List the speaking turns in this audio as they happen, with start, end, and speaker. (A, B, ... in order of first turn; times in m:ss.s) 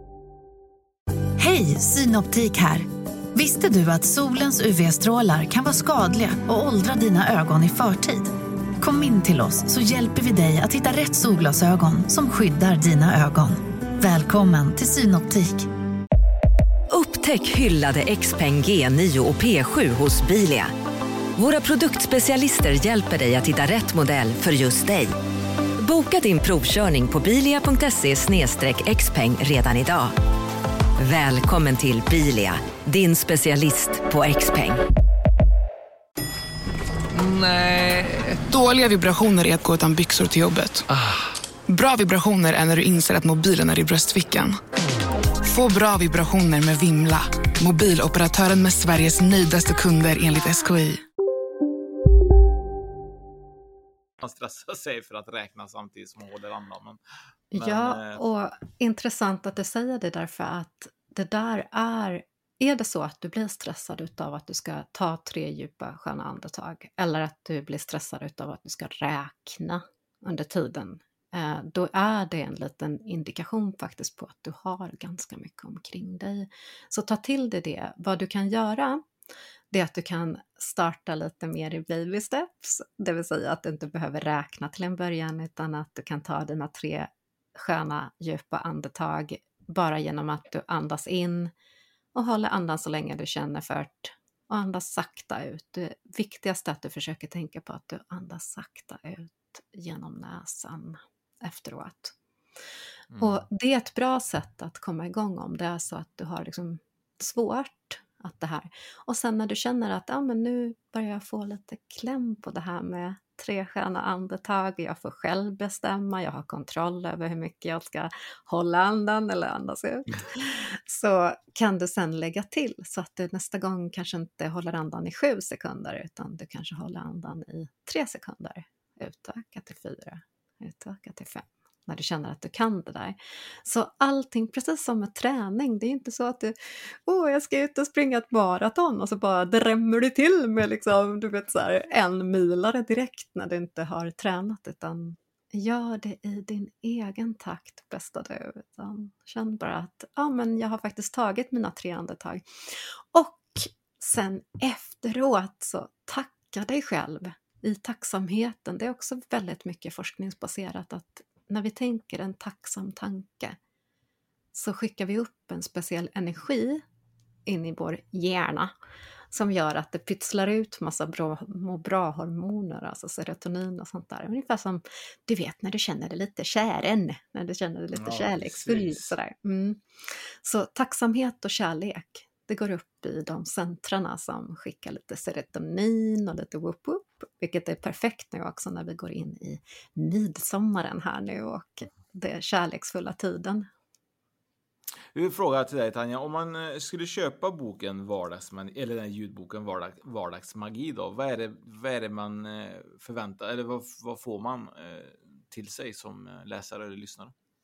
0:01.4-0:15.7 A
0:16.9-0:20.7 B
0:21.4-0:25.1 B
0:25.8-0:30.1 B
0:31.0-0:34.8 B
0:37.1-0:40.9 C
0:41.7-0:44.6 C
0:45.4-0:51.0 C
0:54.2-0:57.0 D
0:57.5-1:19.0 E
0:57.5-0:58.2 D
1:19.7-1:31.5 E
1:32.1-1:42.1 E
1:43.1-1:43.4 D
1:43.2-2:43.6 E
2:44.5-2:46.8 E
2:47.5-2:48.7 E
2:49.3-3:13.7 E
2:57.9-2:59.1 D
3:15.1-3:27.3 D